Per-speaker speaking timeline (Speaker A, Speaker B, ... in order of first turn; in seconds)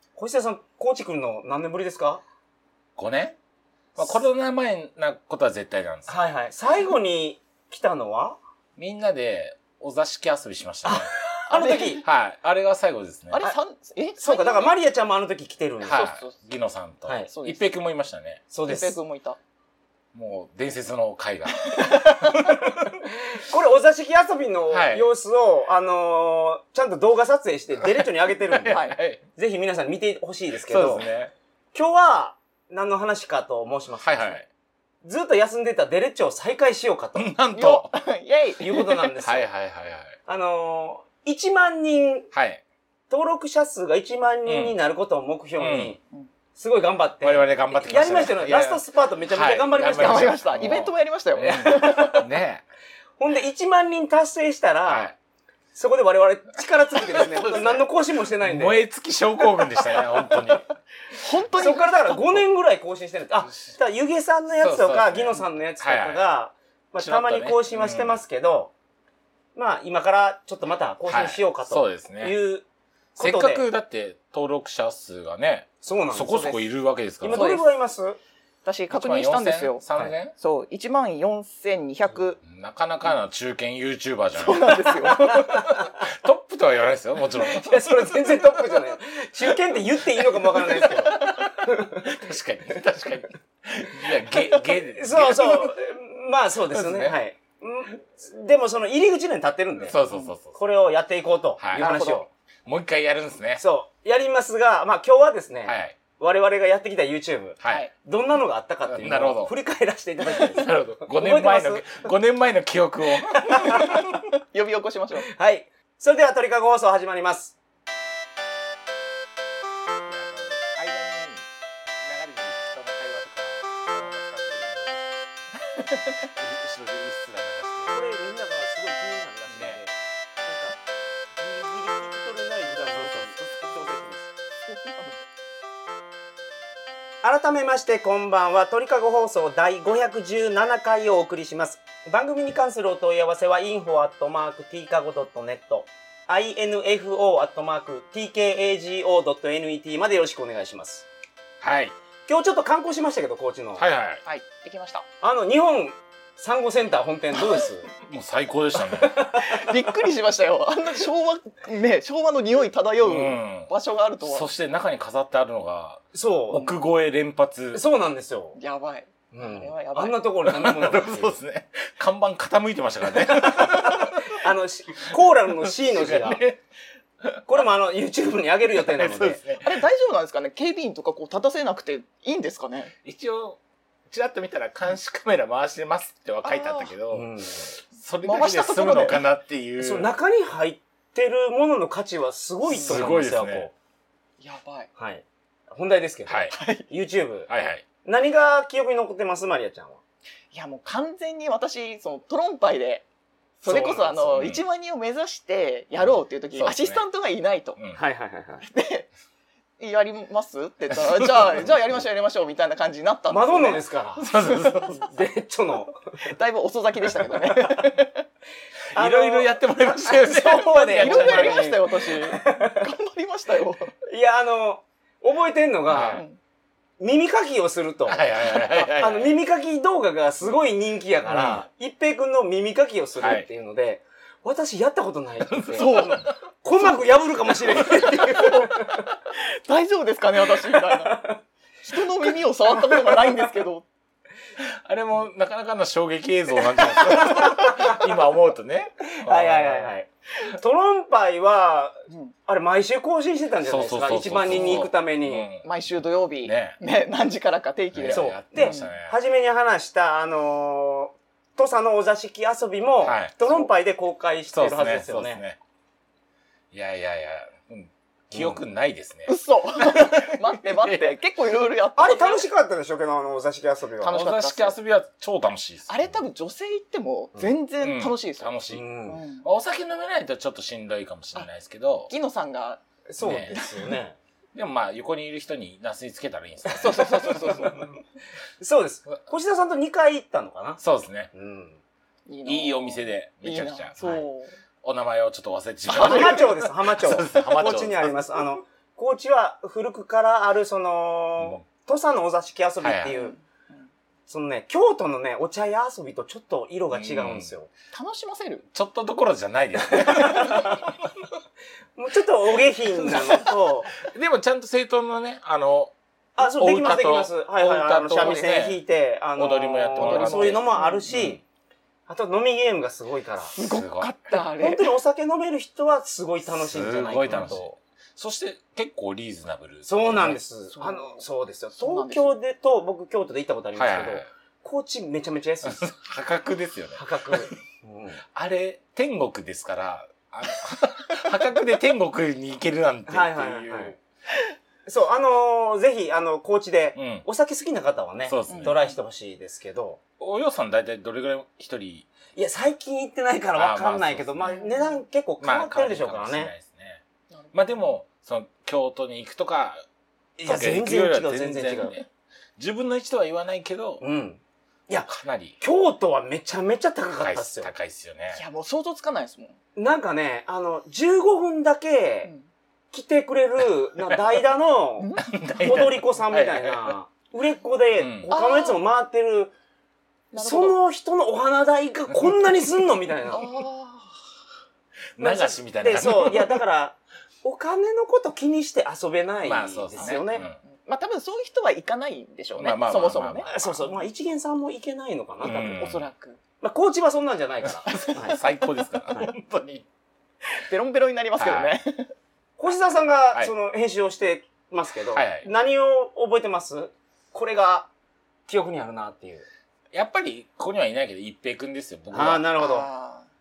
Speaker A: 0.2-2.2, 6.1-8.4, 10.8-12.0, 14.2-16.0, 18.5-19.0, 22.8-31.1, 31.7-34.4, 35.0-37.3, 38.6-39.5, 40.3-42.3, 43.1-46.0, 46.5-50.8, 51.4-52.2, 53.2-55.1, 55.8-58.8, 61.5-68.7, 69.5-72.7, 73.2-73.7, 75.8-76.6, 77.2-78.2, 85.2-86.0, 87.4-92.1, 95.0-100.0, 100.5-102.3, 103.6-112.1, 113.4-114.0, 115.2-117.5, 127.9-130.8, 131.4-134.3, 137.2-151.1, 152.3-153.8, 155.2-157.9, 158.9-159.8, 166.1-166.7, 167.7-168.6, 169.3-171.3, 173.4-176.4, 177.5-179.4, 187.1-187.7, 189.8-193.7, 195.0-197.5, 198.0-200.0, 203.7-204.3, 208.0-208.6, 213.3-214.3, 215.1-216.0, 218.9-222.8, 224.1-226.2, 227.0-239.0, 240.7-241.4, 242.9-243.2, 246.9-248.0, 249.1-255.5, 258.1-265.4, 268.3-268.6, 272.0-274.2, 278.7-279.2, 283.1-284.2, 286.7-287.9, 288.6-290.8, 291.3-291.8, 295.9-303.4, 304.3-307.7, 310.0-310.8, 312.0-313.9, 316.4-321.4, 322.1-323.5, 324.4-327.7, 329.9-335.9, 336.9-338.2, 343.1-343.9, 344.9-350.0, 352.4-356.5, 360.4-361.9, 364.0-367.7, 369.8-372.3, 372.9-379.5, 380.4-383.5, 385.2-390.4, 393.5-395.8, 396.6-398.4, 402.6-407.9, 408.5-409.5, 412.1-412.9
Speaker B: 3.0-3.4, 4.0-6.2, 8.8-11.1, 12.0-13.5, 15.8-18.4, 20.1-21.8, 24.7-25.1, 28.7-29.2, 30.7-31.3, 34.0-34.5, 37.1-38.0, 39.0-40.2, 42.3-42.6, 44.5-44.8, 45.6-46.0, 47.2-52.6, 54.9-55.1, 57.1-57.8, 58.4-60.6, 64.6-66.2, 67.0-68.2, 71.1-72.4, 73.2-77.5, 78.9-80.3, 82.4-87.8, 92.0-95.8, 96.7-97.2, 99.9-100.6, 101.6-101.9, 102.7-103.6, 105.7-106.0, 107.6-107.9, 108.9-109.5, 110.3-114.2, 120.1-121.5, 122.0-125.3, 126.0-128.0, 129.5-129.8, 133.0-133.4, 151.6-151.9, 153.8-154.2, 158.0-159.2, 163.0-163.7, 164.2-167.8, 170.5-174.2, 175.8-176.6, 178.9-179.8, 183.0-183.6, 184.1-187.3, 187.9-190.1, 192.7-193.7, 196.3-196.6, 197.5-197.8, 204.3-204.6, 206.6-207.0, 210.9-211.7, 214.2-215.1, 218.9-221.6, 225.9-226.2, 228.1-229.4, 231.3-231.6, 233.2-233.5, 235.5-236.3, 237.8-238.1, 244.6-249.9, 253.7-255.7, 256.4-256.8, 257.9-259.2, 263.0-263.3, 264.5-265.6, 266.7-271.2, 274.0-276.2, 277.8-278.9, 279.4-282.1, 283.2-283.6, 284.5-287.5, 290.8-291.3, 292.4-294.2, 294.8-298.1, 302.8-303.1, 306.9-307.5, 308.7-310.8, 314.0-318.8, 319.4-321.4, 323.6-324.1, 326.5-330.4, 333.8-334.3, 335.6-337.6, 338.3-344.0, 347.0-347.2, 348.2-348.8, 350.2-352.1, 353.6-354.6, 355.4-357.0, 357.5-359.8, 360.4-362.1, 362.6-364.0, 365.0-365.6, 367.2-368.4, 375.3-376.9, 378.0-378.3, 385.2-386.6, 389.4-390.6, 392.6-393.8, 395.4-396.1, 397.6-399.9, 401.4-401.8, 405.1-405.5, 409.9-412.5
Speaker C: 11.5-12.0, 13.3-14.7, 15.9-16.4, 17.3-17.7, 18.7-19.4, 21.7-22.4, 28.6-29.0, 37.5-38.9, 49.8-52.3, 61.1-62.2, 76.3-76.6, 77.2-77.7, 78.7-82.4, 84.3-85.3, 101.8-102.2, 113.6-115.3, 125.7-126.1, 134.7-135.2, 154.3-155.1, 159.4-164.5, 168.6-170.2, 179.6-182.9, 186.4-186.9, 188.2-189.2, 192.8-193.1, 194.4-194.9, 196.5-196.9, 200.5-203.0, 203.6-207.8, 208.6-209.1, 209.8-215.1, 216.3-218.3, 220.9-223.9, 226.1-226.4, 235.8-236.1, 237.8-241.3, 241.8-243.9, 254.5-254.9, 255.6-258.9, 269.3-272.5, 274.1-274.8, 275.9-278.5, 279.1-279.5, 282.1-283.9, 286.8-287.8, 292.3-294.5, 295.9-296.6, 303.1-303.9, 307.9-308.6, 318.1-318.4, 320.0-321.1, 323.5-324.9, 330.8-331.2, 331.8-332.4, 348.5-348.8, 354.5-355.0, 368.3-369.6, 375.0-375.4, 378.3-378.8, 380.3-380.8, 383.3-384.2, 390.0-394.1, 395.5-396.4, 400.5-402.1, 412.6-413.3